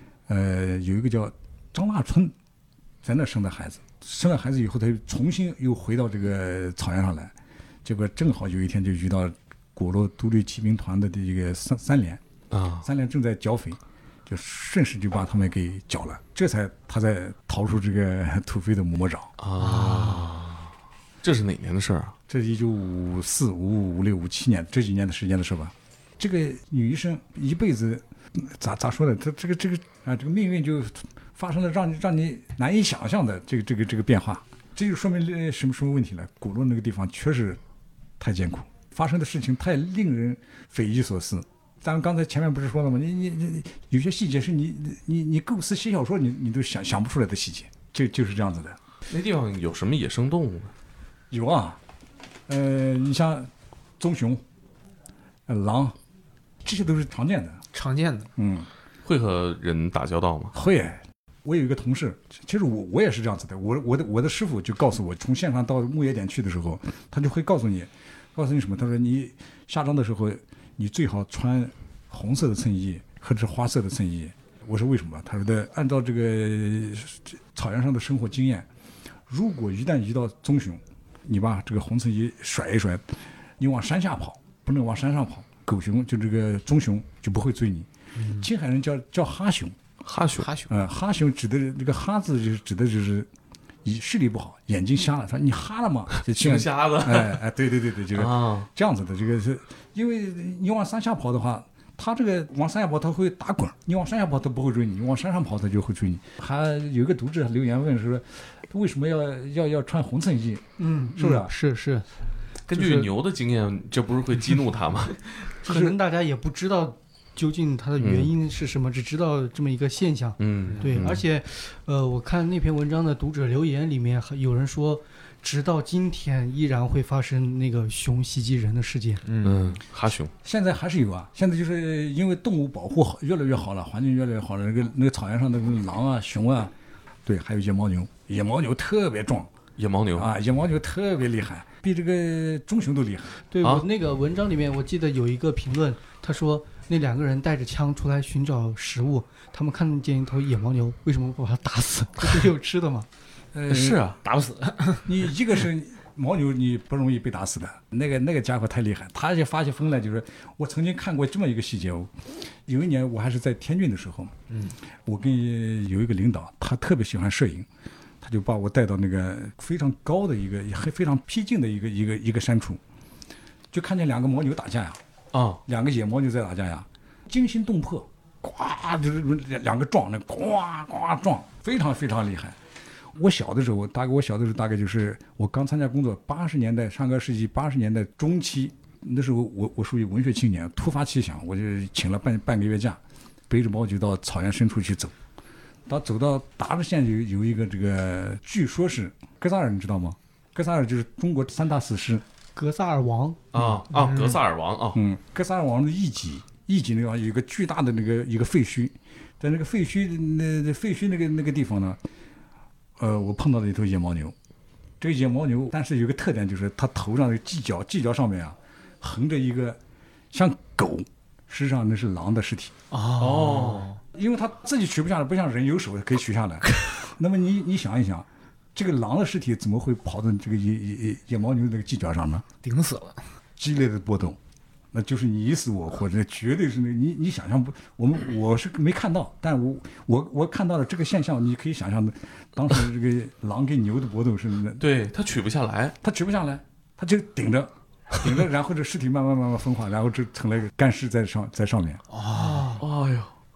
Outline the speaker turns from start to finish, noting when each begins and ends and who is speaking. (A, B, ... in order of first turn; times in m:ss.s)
0:00.3-0:02.3 A
0:03.0-0:07.3 A
0:07.8-0:12.2 A
0:12.5-0:12.9 B
0:12.8-0:19.3 A
0:19.4-0:20.7 B
0:19.6-0:20.4 C
0:21.2-0:22.1 B
0:22.3-0:37.6 A
0:38.2-0:48.8 A
0:49.1-0:50.7 B
0:51.3-0:51.8 A
0:52.5-0:54.4 A
0:55.5-0:56.0 A
0:56.6-0:57.6 A
0:57.7-0:58.3 C
0:58.4-0:58.7 A
0:59.0-1:00.6 B
1:00.5-1:18.7 A
1:19.3-1:29.8 A
1:28.2-1:28.5 C
1:30.0-1:30.5 B
1:30.4-1:30.7 C
1:30.7-1:33.3 A
1:33.8-1:51.5 A
1:36.3-1:37.4 B
1:38.1-1:38.7 B
1:50.8-1:52.0 D
1:52.7-1:55.3 B
1:52.7-1:53.1 D
1:55.6-2:09.2 D
1:55.6-1:56.0 A
1:58.0-1:58.3 B
2:00.4-2:01.2 B
2:00.7-2:01.1 C
2:09.2-2:09.8 C
2:09.4-2:10.3 B
2:10.4-2:16.7 A
2:17.2-2:19.5 A
2:19.8-2:20.3 B
2:20.1-2:23.4 A
2:23.5-2:33.1 D
2:33.5-2:34.1 A
2:33.7-2:34.2 B
2:34.2-2:35.1 C
2:35.0-2:42.1 A
2:42.6-2:44.3 A
2:44.5-2:44.7 C
2:45.0-2:47.7 A
2:48.2-2:52.8 A
2:53.7-2:55.0 A
2:55.3-2:55.6 B
2:55.6-3:02.6 A
3:03.1-3:15.1 A
3:15.9-3:22.2 A
3:22.6-3:23.4 D
3:23.5-3:25.0 B
3:23.9-3:24.4 C
3:24.9-3:32.0 A
3:33.0-3:34.3 A
3:35.0-3:39.8 A
3:40.3-3:42.7 A
3:42.9-3:44.0 C
3:43.2-3:43.9 B
3:44.1-3:52.4 A
3:52.6-3:53.2 C
3:53.6-3:54.4 A
3:54.9-4:04.8 A
4:04.8-4:06.0 B
4:06.0-4:12.0 A
4:12.1-4:12.8 C
4:12.4-4:13.3 B